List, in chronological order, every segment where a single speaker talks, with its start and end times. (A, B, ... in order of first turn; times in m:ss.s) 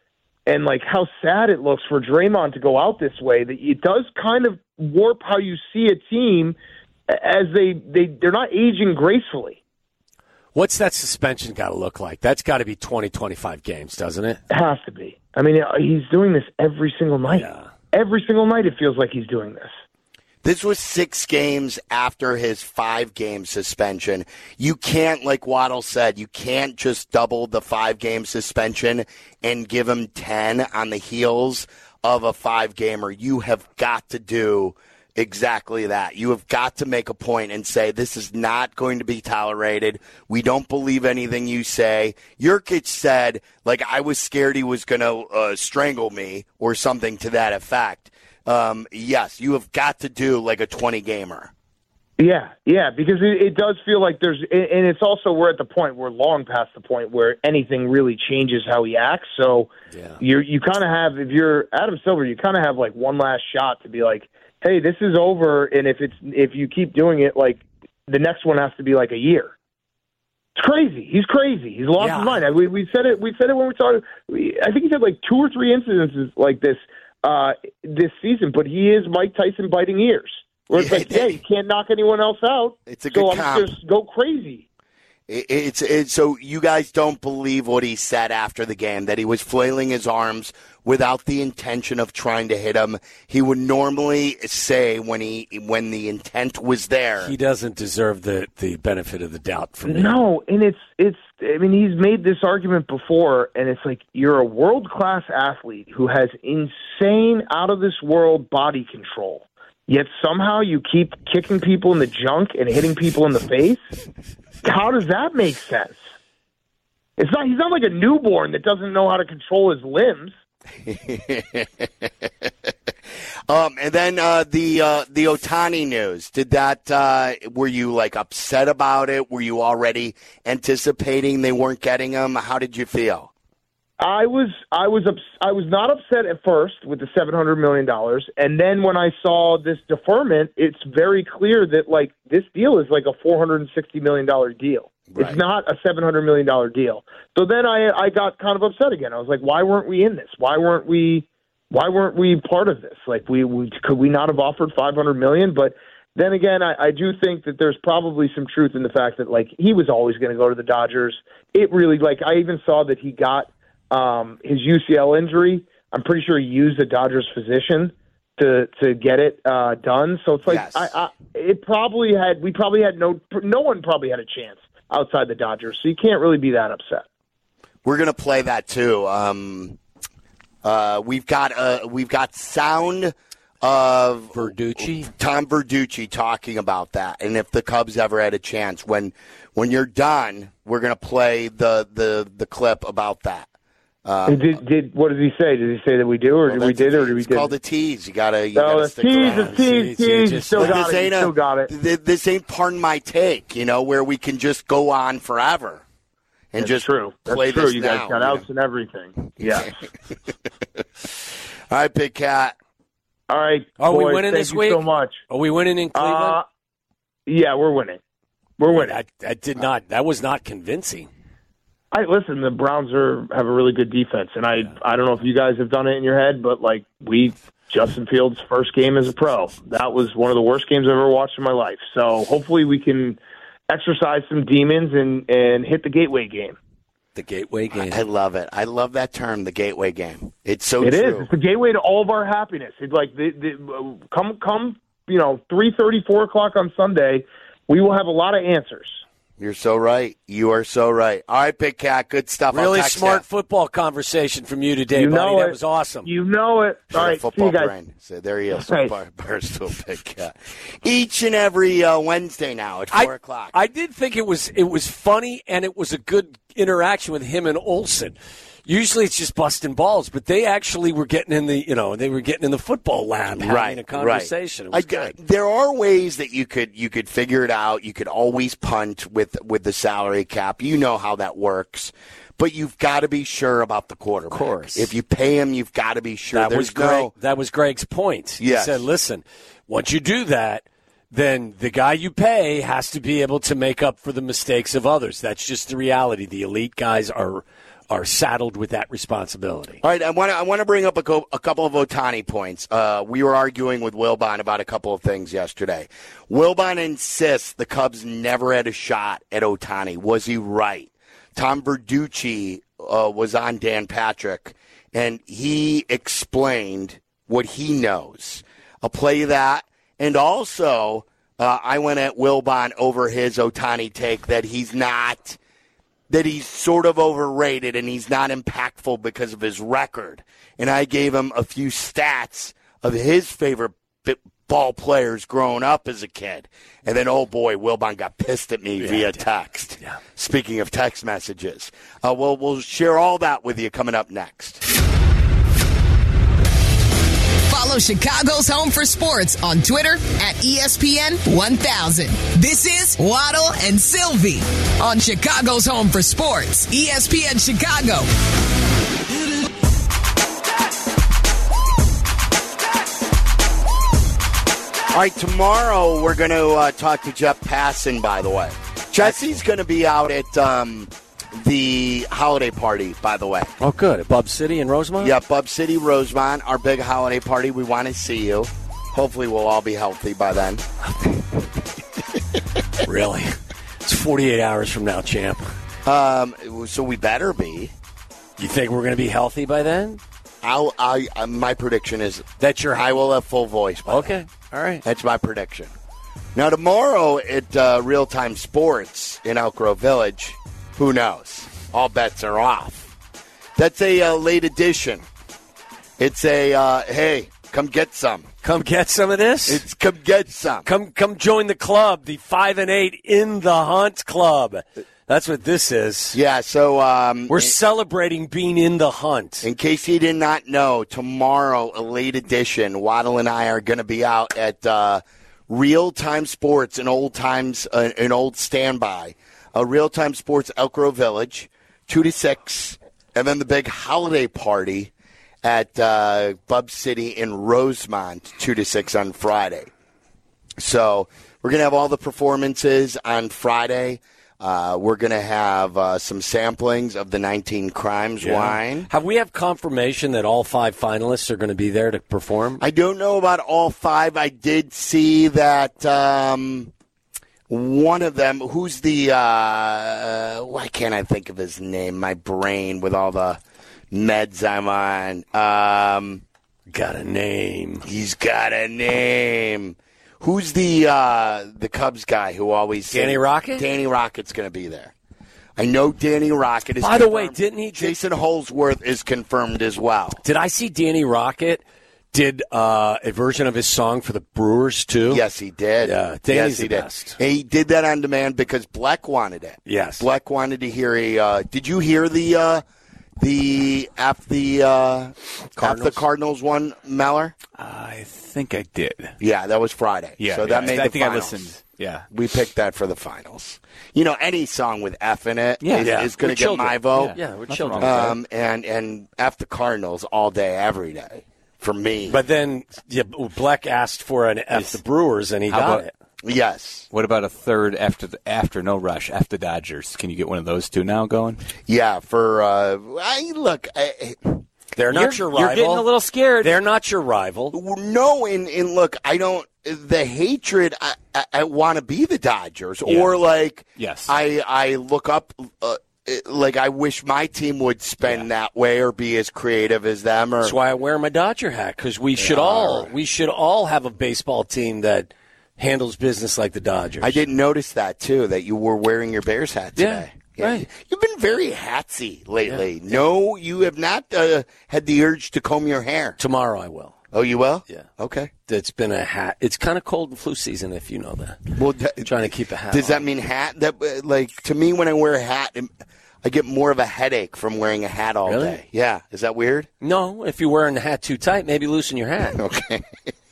0:00.5-0:06.6 A
0:07.1-0:09.6 A
0:10.6-0:14.4 B
0:14.5-0:19.7 A
0:17.3-0:17.7 B
0:20.4-0:51.5 C
0:52.2-1:09.5 A
0:59.9-1:00.2 B
1:10.6-1:24.6 A
1:12.0-1:12.4 B
1:20.7-1:21.4 C
1:22.9-1:23.7 C
1:25.3-1:37.3 C
1:37.2-1:40.2 B
1:39.9-1:53.8 A
1:54.6-1:56.0 A
1:57.2-2:00.3 A
2:00.8-2:02.5 C
2:03.5-2:13.3 C
2:14.0-2:57.1 A
2:25.1-2:25.4 C
2:50.5-2:50.9 C
2:57.8-2:59.8 C
3:00.6-3:13.5 C
3:04.3-3:05.1 B
3:14.0-3:14.6 C
3:14.3-3:17.5 A
3:16.5-3:19.6 C
3:18.6-3:21.7 A
3:19.3-3:20.8 B
3:20.6-3:25.8 C
3:26.5-3:28.4 C
3:26.6-3:29.8 A
3:29.4-3:29.7 C
3:31.7-3:32.6 C
3:33.3-3:35.2 A
3:33.8-3:36.4 B
3:36.0-3:36.4 A
3:37.3-3:38.0 A
3:38.6-3:38.9 A
3:38.6-3:41.1 B
3:41.9-3:53.2 A
3:53.7-3:56.6 A
3:57.2-3:58.0 B
3:57.7-4:01.3 C
4:00.8-4:09.0 A
4:09.4-4:13.2 C
4:12.5-4:16.1 B
4:15.0-4:17.7 A
4:16.9-4:23.5 C
4:18.6-4:19.0 A
4:22.9-4:35.1 B
4:33.4-4:47.1 C
4:44.3-4:44.9 B
4:46.3-4:59.8 B
4:48.4-4:48.9 C
4:59.8-5:25.4 C
5:26.1-5:44.6 C
5:38.8-5:39.2 B
5:47.5-5:58.1 D
6:04.9-6:13.5 C
6:09.0-6:09.4 B
6:13.6-6:15.2 B
6:15.0-6:21.5 C
6:22.8-6:25.5 B
6:25.8-6:27.7 C
6:28.4-6:30.0 B
6:30.4-6:34.2 C
6:32.4-6:32.9 B
6:33.9-6:34.8 B
6:34.8-6:35.7 C
6:36.4-6:42.9 C
6:43.6-6:45.0 C
6:46.0-6:48.3 C
6:48.4-6:49.6 B
6:49.5-6:50.7 C
6:50.6-6:56.2 B
6:56.1-6:57.6 C
6:57.3-6:59.5 B
6:59.4-7:14.9 C
7:15.4-7:19.7 C
7:20.6-7:28.9 C
7:28.2-7:32.6 B
7:32.6-7:36.7 C
7:37.5-7:43.4 C
7:43.9-7:46.2 C
7:46.7-7:47.9 B
7:47.8-7:54.9 C
7:52.9-7:53.7 B
7:55.6-8:00.2 C
7:56.8-7:58.0 B
8:00.2-8:05.2 B
8:05.1-8:12.6 C
8:05.8-8:07.2 B
8:09.7-8:10.1 B
8:13.2-8:17.4 C
8:15.6-8:16.0 B
8:17.6-8:19.2 E
8:19.2-8:21.5 C
8:20.2-8:22.1 E
8:22.1-8:27.2 C
8:25.6-8:28.2 E
8:25.8-8:28.2 B
8:27.8-8:32.2 C
8:32.1-8:35.9 B
8:34.5-8:34.8 E
8:35.5-8:35.9 E
8:36.2-8:36.9 C
8:36.9-8:41.4 E
8:41.7-8:44.5 C
8:44.8-8:45.9 B
8:44.9-8:46.6 E
8:46.4-8:47.6 B
8:47.5-9:00.6 C
8:52.9-8:53.2 E
8:53.8-8:54.1 E
9:00.4-9:07.2 B
9:02.2-9:02.8 E
9:07.0-9:16.2 C
9:09.8-9:10.7 B
9:12.4-9:13.0 B
9:16.2-9:16.9 B
9:17.1-9:18.3 C
9:18.5-9:23.0 B
9:21.5-9:25.7 C
9:26.2-9:29.7 C
9:28.3-9:28.6 B
9:29.8-9:32.4 B
9:32.4-9:33.0 C